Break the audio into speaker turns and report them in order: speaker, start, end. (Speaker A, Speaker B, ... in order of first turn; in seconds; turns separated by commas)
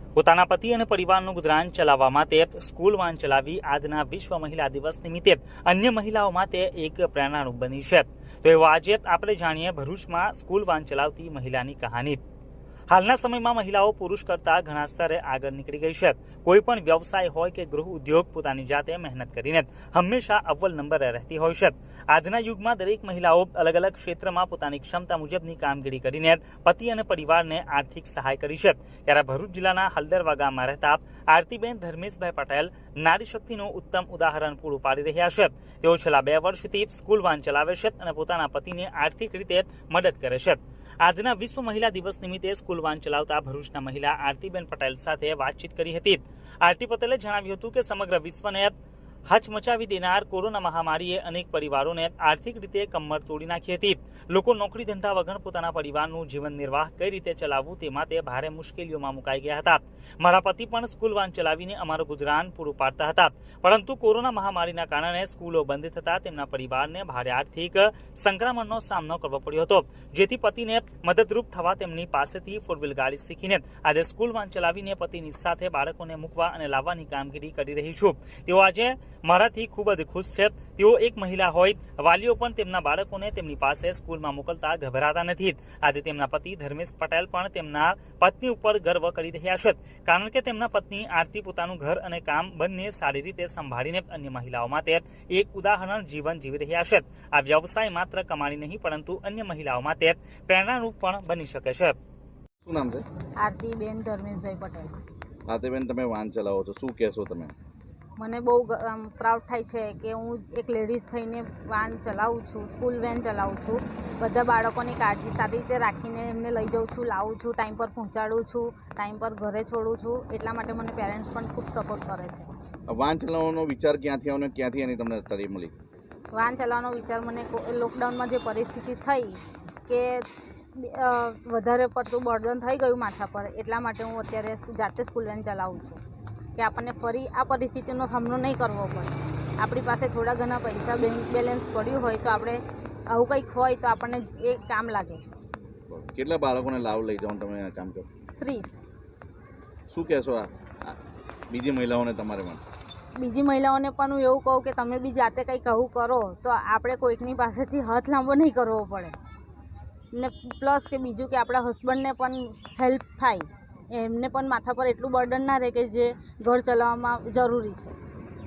Speaker A: 0.2-12.2, Speaker A: 12.9-48.7, Speaker A: 49.3-102.0, Speaker B: 102.6-103.0, Speaker C: 103.4-104.9, Speaker B: 105.5-107.5, Speaker C: 108.2-122.5, Speaker B: 122.9-125.7, Speaker C: 126.3-136.0, Speaker C: 136.6-145.2, Speaker B: 145.9-148.1, Speaker C: 148.4-148.9, Speaker B: 149.9-151.0, Speaker B: 151.5-152.6, Speaker C: 153.2-159.2, Speaker C: 160.1-167.9